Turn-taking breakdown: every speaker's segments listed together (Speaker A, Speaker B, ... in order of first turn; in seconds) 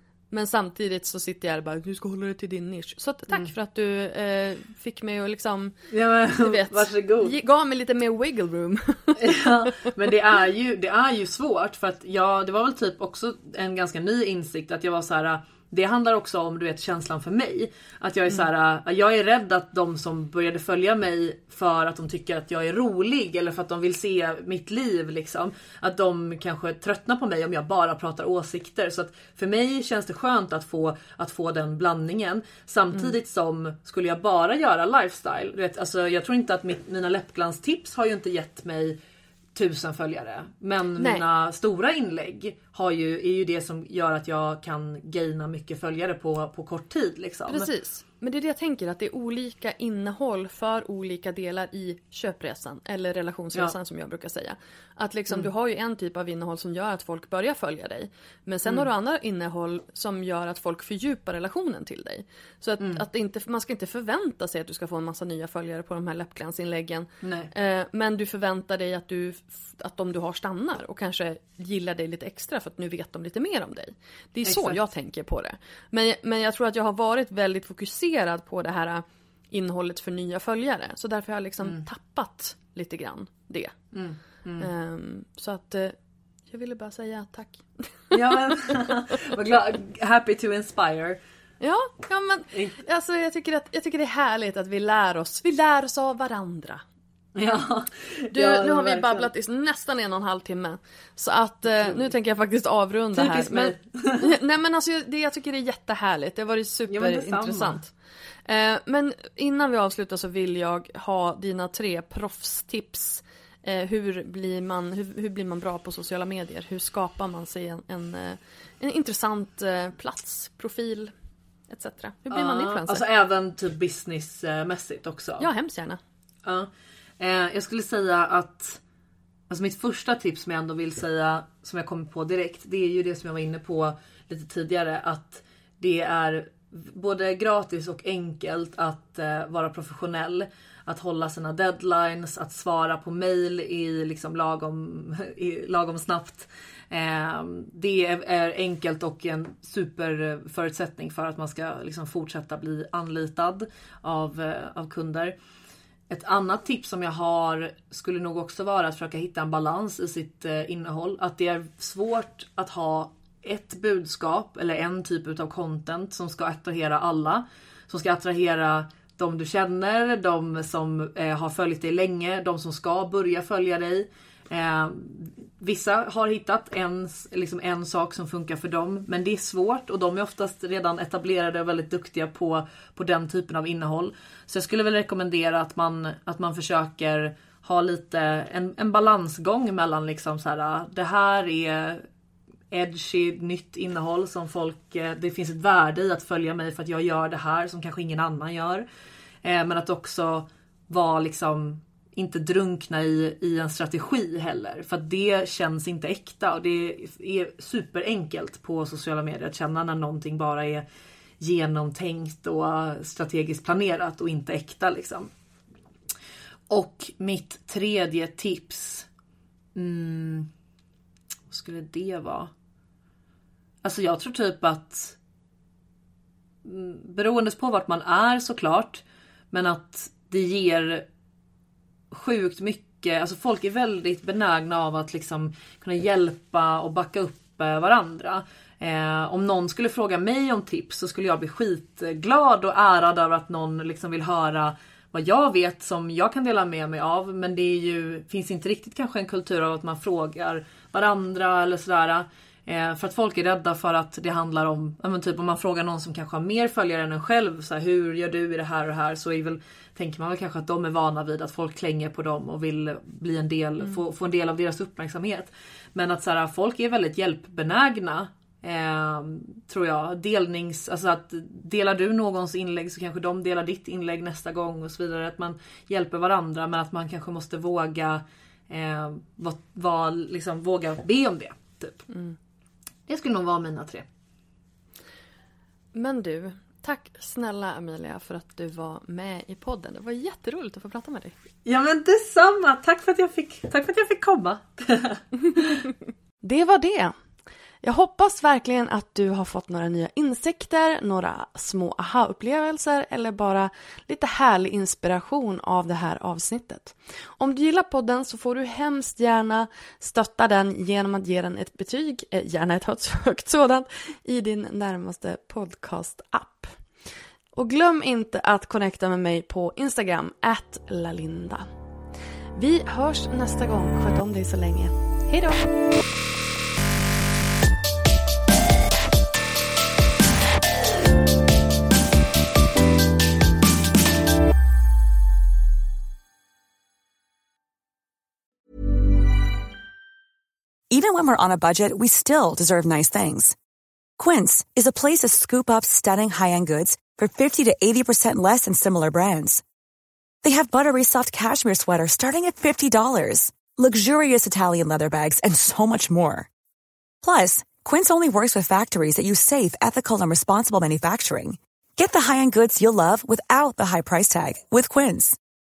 Speaker A: 0.3-5.8, 6.3-9.4, 41.0-41.2, 47.5-83.8, 84.6-86.0, 86.5-88.8, 91.6-96.8, 98.3-107.9, 108.5-121.1, 121.7-123.0, 125.4-126.0, 282.1-282.4, 285.9-291.4, 296.4-297.1, 297.8-316.8, 317.6-321.7, 322.6-325.7
Speaker B: 5.9-7.3, 9.2-39.0, 39.5-47.7, 67.2-67.5, 74.5-74.8, 83.9-84.7, 88.1-91.2, 92.5-92.8, 97.4-99.3, 101.8-102.0, 103.1-104.3, 106.9-107.8, 122.3-125.5, 126.5-128.8, 129.5-155.3, 156.1-192.0, 192.7-198.9, 199.4-210.8, 211.4-215.3, 216.7-219.1, 219.8-220.5, 221.5-222.5, 223.8-225.2, 226.7-231.1, 232.1-282.1, 283.1-284.1, 291.7-295.9
Speaker C: 340.9-343.6, 344.2-349.6, 350.4-356.5, 357.2-365.4